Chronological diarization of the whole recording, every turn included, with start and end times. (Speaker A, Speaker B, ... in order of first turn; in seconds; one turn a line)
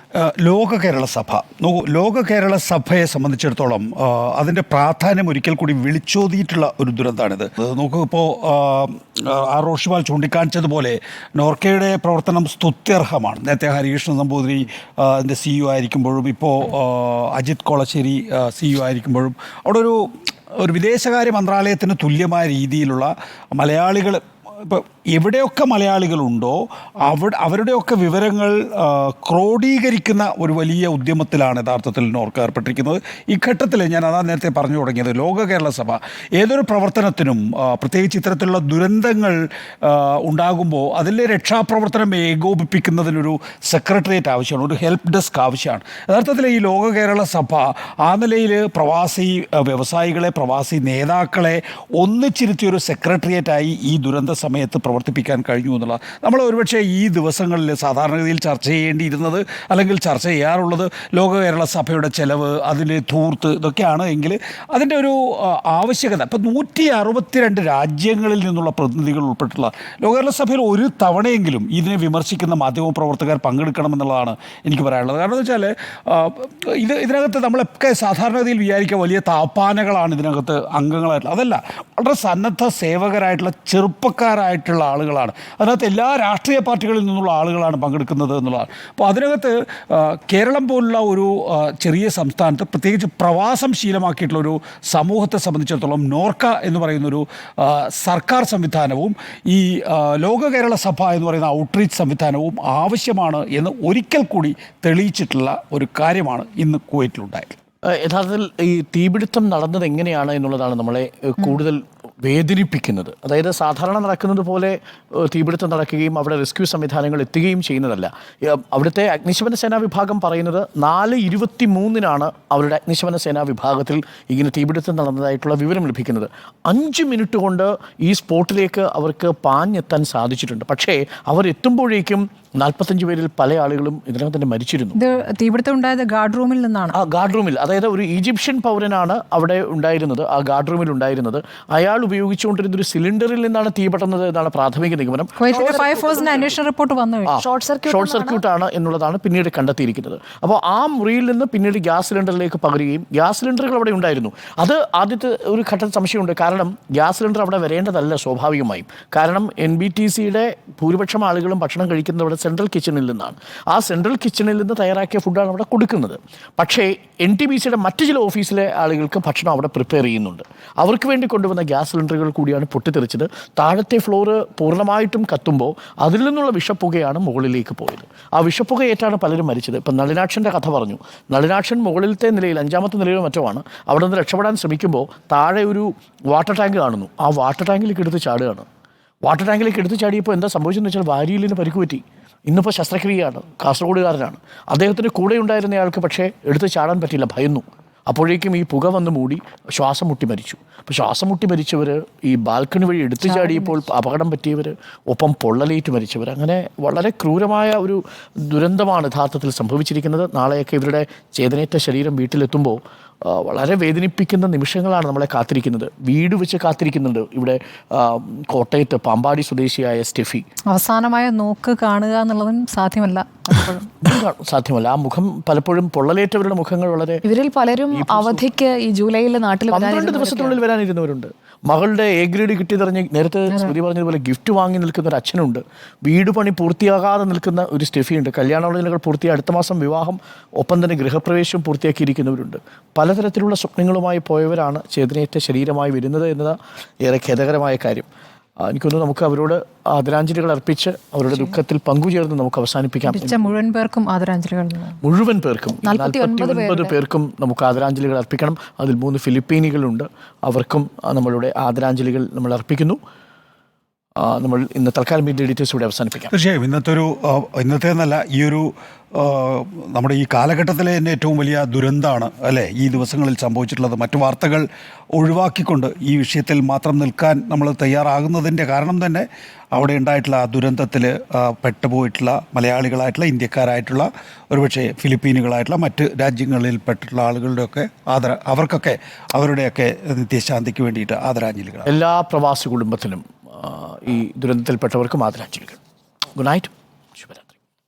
Speaker A: 0.2-107.5
Speaker B: 107.9-134.9
Speaker C: 134.9-136.9
Speaker B: 136.9-146.2
Speaker C: 145.4-147.3
Speaker D: 145.5-146.4
Speaker B: 147.3-188.7
Speaker D: 147.4-148.4
Speaker B: 189.2-220.4
Speaker C: 203.3-203.7
Speaker C: 220.7-223.9
Speaker B: 224.0-227.2
Speaker D: 227.2-230.6
Speaker B: 227.9-228.4
Speaker B: 229.7-248.1
Speaker B: 248.6-253.5
Speaker C: 253.1-255.0
Speaker B: 255.0-263.0
Speaker D: 255.8-256.9
Speaker B: 264.2-266.3
Speaker A: 266.3-291.9
Speaker B: 291.9-295.8
Speaker B: 296.4-297.5